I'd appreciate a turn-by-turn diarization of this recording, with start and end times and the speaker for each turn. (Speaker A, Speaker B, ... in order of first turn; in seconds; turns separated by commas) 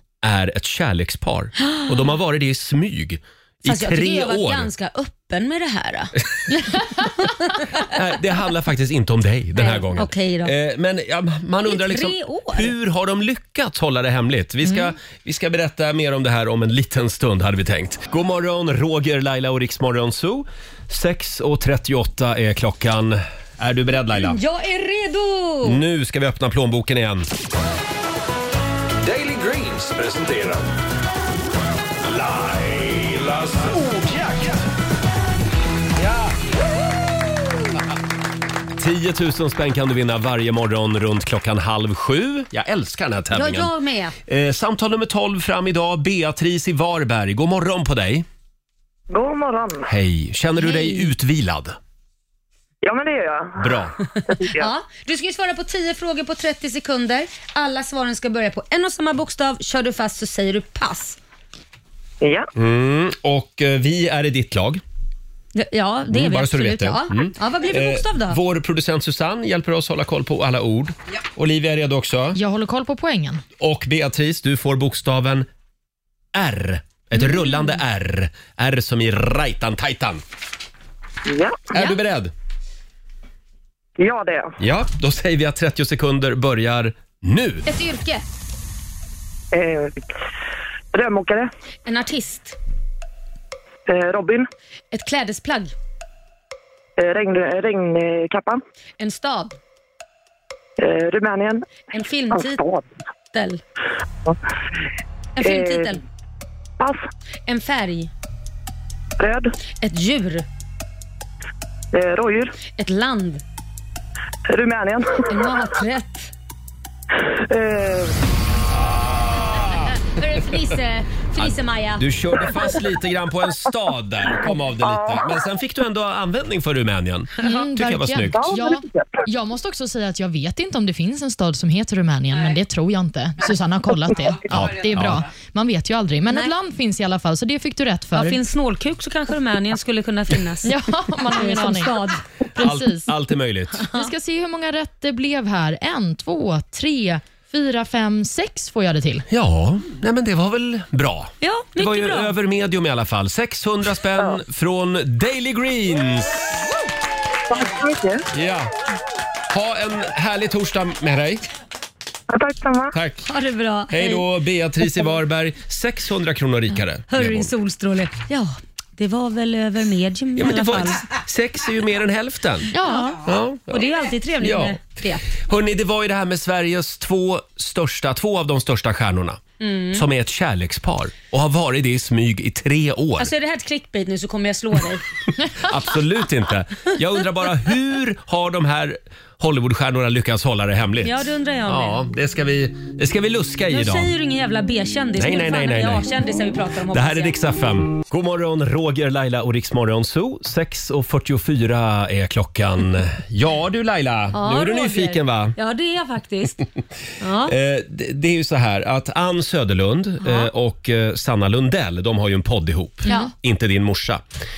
Speaker A: 0.2-4.7, Speaker B: 1.6-2.1, Speaker B: 3.6-7.9, Speaker A: 7.8-24.4, Speaker B: 9.6-10.5, Speaker B: 11.7-12.7, Speaker B: 24.2-25.8, Speaker A: 25.6-27.3, Speaker C: 29.0-30.7, Speaker C: 32.0-34.6, Speaker C: 36.0-36.3, Speaker A: 38.8-43.7, Speaker B: 43.3-44.1, Speaker A: 44.3-48.2, Speaker D: 49.1-49.9, Speaker A: 49.9-51.8, Speaker B: 50.6-51.1, Speaker D: 52.8-54.7, Speaker A: 53.6-53.9, Speaker B: 54.6-61.2, Speaker D: 62.2-62.5, Speaker A: 62.5-64.8, Speaker B: 65.5-68.4, Speaker A: 66.1-72.4, Speaker E: 72.3-73.4, Speaker A: 73.6-75.5, Speaker A: 76.3-80.2, Speaker D: 81.3-81.7, Speaker A: 81.7-82.3, Speaker D: 84.0-84.5, Speaker A: 84.6-87.6, Speaker B: 87.7-88.2, Speaker D: 89.5-89.9, Speaker D: 90.9-91.5, Speaker B: 91.8-92.6, Speaker D: 93.9-94.5, Speaker B: 94.9-95.7, Speaker D: 97.0-98.6, Speaker B: 99.0-99.5, Speaker D: 100.8-101.8, Speaker B: 101.9-102.6, Speaker D: 102.3-102.8, Speaker B: 103.3-103.6, Speaker B: 105.4-106.0, Speaker D: 105.4-106.0, Speaker D: 106.8-107.1, Speaker B: 107.5-108.1, Speaker D: 109.2-109.5, Speaker B: 109.8-110.5, Speaker D: 111.9-112.5, Speaker B: 112.8-113.4, Speaker D: 114.5-115.3, Speaker B: 115.3-116.3, Speaker D: 117.5-118.2, Speaker B: 120.2-122.0, Speaker A: 121.4-128.5, Speaker E: 127.4-138.4, Speaker D: 128.4-129.2, Speaker A: 134.5-135.2, Speaker B: 138.1-142.2, Speaker E: 140.6-143.1, Speaker A: 142.6-143.8, Speaker E: 143.8-149.2, Speaker A: 149.3-156.6, Speaker B: 151.4-152.3, Speaker D: 157.5-158.2, Speaker A: 158.3-158.7, Speaker A: 159.5-161.4, Speaker D: 162.3-162.9, Speaker A: 162.9-163.2, Speaker B: 163.2-164.2, Speaker A: 163.9-167.5, Speaker B: 167.1-171.0, Speaker A: 170.3-172.7, Speaker E: 172.7-173.1, Speaker B: 172.8-173.2, Speaker A: 173.2-173.8, Speaker B: 173.7-175.2, Speaker A: 174.4-174.8, Speaker A: 175.4-179.4, Speaker B: 179.6-180.0, Speaker A: 179.9-183.3, Speaker B: 183.2-185.0, Speaker A: 185.6-194.1, Speaker B: 191.0-192.0, Speaker B: 193.7-197.3, Speaker A: 195.2-196.1, Speaker A: 196.9-205.6, Speaker B: 204.3-206.6, Speaker B: 207.2-207.5, Speaker A: 207.4-214.2, Speaker B: 210.2-210.5, Speaker E: 213.1-213.3